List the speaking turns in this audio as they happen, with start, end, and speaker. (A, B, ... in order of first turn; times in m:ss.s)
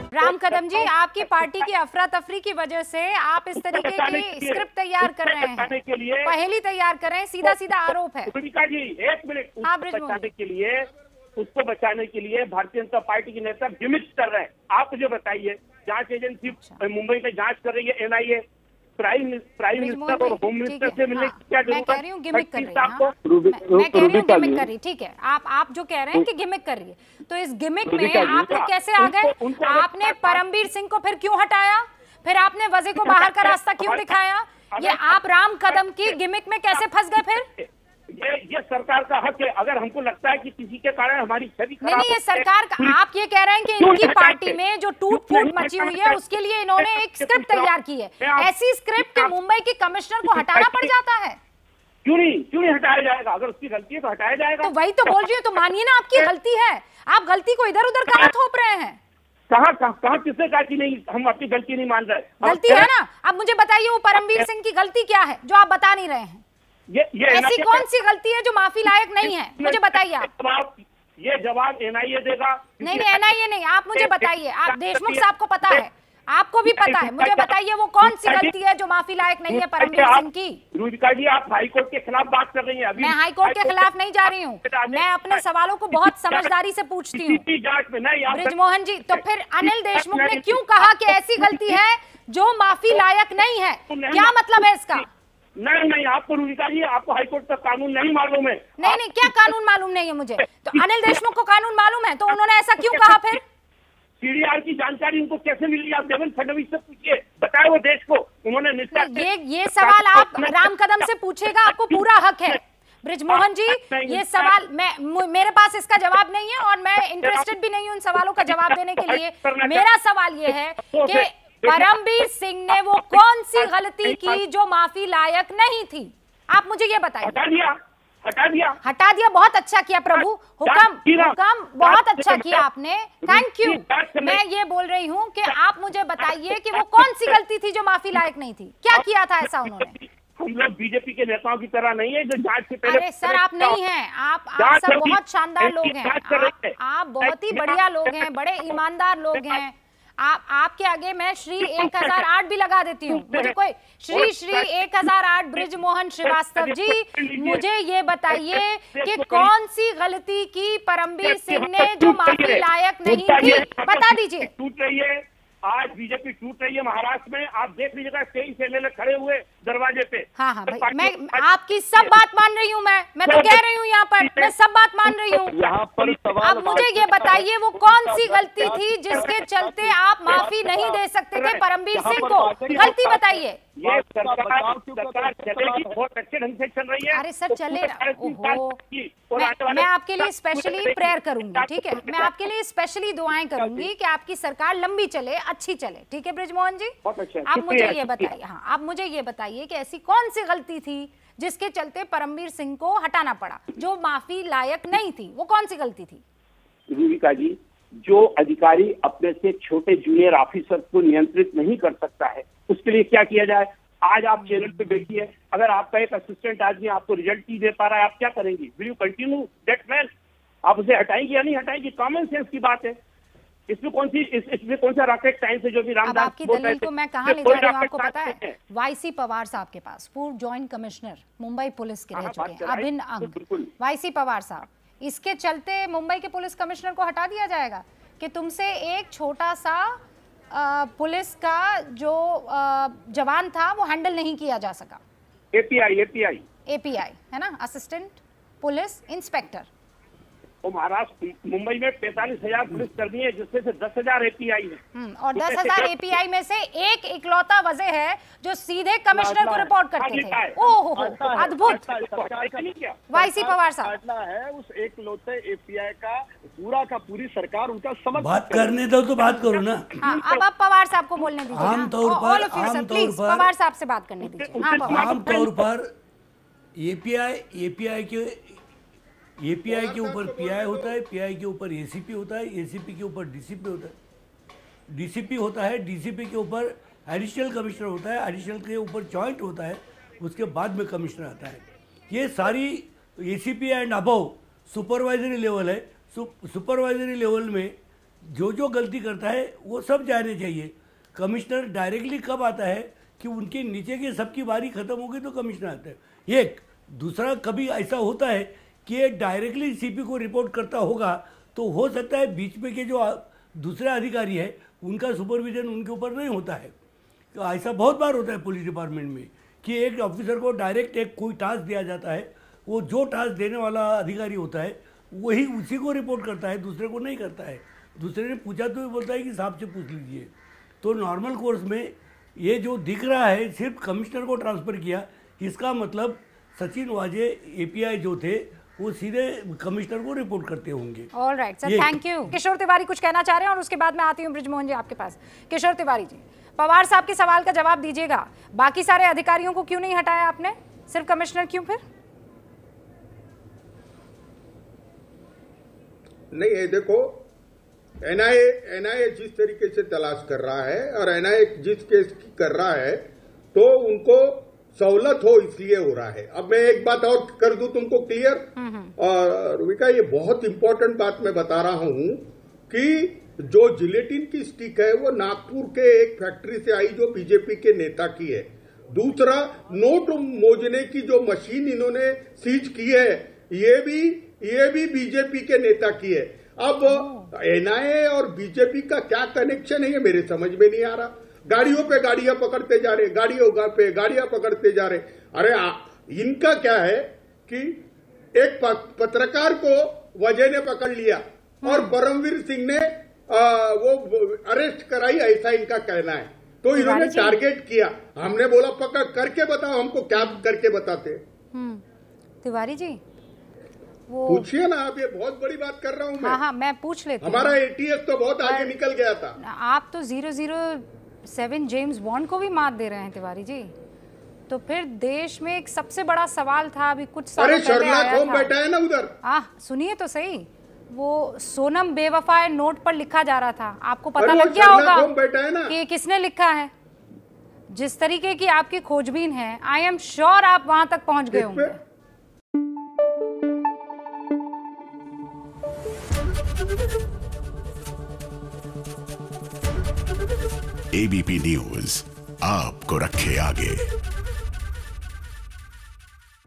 0:00.1-0:08.3 A
0:00.2-0:01.6 B
0:03.6-0:06.3 B
0:08.2-0:18.4 B
0:09.6-0:10.3 A
0:16.5-0:16.8 A
0:19.0-0:24.7 B
0:19.8-0:37.5 A
0:27.8-0:30.4 B
0:33.0-0:34.1 B
0:34.7-0:36.2 B
0:37.6-0:43.0 B
0:41.8-0:51.4 A
0:43.8-0:44.6 B
0:45.1-0:46.2 B
0:46.8-0:49.3 B
0:50.2-0:50.9 B
0:52.0-0:55.1 B
0:54.6-0:59.0 A
0:59.5-1:02.9 B
1:02.4-1:06.4 A
1:04.2-1:04.5 B
1:06.9-1:07.8 B
1:07.3-1:10.3 A
1:09.2-1:13.2 B
1:12.8-1:20.6 A
1:13.9-1:15.8 B
1:16.7-1:17.5 B
1:18.0-1:18.5 B
1:19.5-1:25.4 B
1:23.0-1:27.4 A
1:25.9-1:26.5 B
1:27.1-1:28.5 B
1:28.3-1:35.0 A
1:29.1-1:31.7 B
1:33.9-1:34.6 B
1:35.6-1:39.5 B
1:38.8-1:43.4 A
1:40.7-1:41.2 B
1:42.8-1:43.3 B
1:44.2-1:52.5 B
1:48.9-2:07.4 A
1:53.3-1:54.5 B
1:58.4-1:59.8 B
2:00.9-2:01.9 B
2:02.7-2:04.4 B
2:07.2-2:08.8 B
2:08.8-2:19.9 A
2:10.1-2:12.6 B
2:13.2-2:14.4 B
2:16.2-2:17.4 B
2:18.9-2:23.8 B
2:22.8-2:44.5 A
2:24.6-2:28.2 B
2:31.6-2:32.2 B
2:33.1-2:33.5 B
2:34.1-2:35.7 B
2:36.2-2:37.6 B
2:38.3-2:39.5 B
2:41.2-2:52.1 B
2:50.4-2:55.6 A
2:53.2-2:53.6 B
2:54.2-2:54.5 B
2:55.3-2:57.4 B
2:55.5-3:01.0 C
2:56.4-3:03.6 A
2:58.7-2:59.4 B
3:01.3-3:03.0 B
3:01.9-3:05.9 C
3:03.7-3:12.5 B
3:07.1-3:08.8 A
3:09.4-3:17.0 A
3:13.6-3:13.9 B
3:17.0-3:18.3 B
3:17.5-3:26.2 A
3:26.9-3:40.1 B
3:40.6-3:43.0 B
3:43.7-3:48.5 B
3:46.0-4:00.0 A
3:52.1-3:53.7 B
4:00.5-4:05.0 A
4:05.5-4:06.4 B
4:06.7-4:09.7 A
4:10.6-4:14.8 B
4:14.9-4:21.8 A
4:15.4-4:16.1 B
4:19.2-4:19.6 C
4:19.2-4:20.6 B
4:20.9-4:28.8 C
4:21.6-4:23.0 B
4:23.1-4:24.0 A
4:28.2-4:30.0 D
4:29.2-4:30.4 B
4:30.0-4:35.1 A
4:31.5-4:33.5 D
4:34.2-4:35.6 B
4:34.8-4:35.9 D
4:36.8-4:38.6 D
4:39.4-4:43.9 D
4:39.6-4:41.0 E
4:44.9-5:16.7 D
5:17.3-5:41.1 D
5:41.1-5:51.8 A
5:41.6-5:42.0 D
5:56.3-5:57.2 E
5:58.0-6:37.8 E
6:08.6-6:08.9 A
6:26.8-6:27.3 A
6:38.4-6:51.2 E
6:41.6-6:41.9 A
6:46.7-6:47.4 A
6:50.1-6:50.4 A
6:51.5-6:51.8 A
6:52.4-6:53.0 A
6:54.1-6:54.5 A
6:54.3-6:56.4 E
6:56.2-6:57.6 A
6:57.2-6:59.4 E
6:58.4-6:58.7 A
6:59.4-7:03.7 A
7:04.5-7:08.5 A
7:07.4-7:09.1 E
7:09.2-7:15.1 A
7:14.2-7:15.8 E
7:15.7-7:16.7 A
7:17.7-7:21.8 A
7:21.3-7:21.7 E
7:30.9-7:33.9 F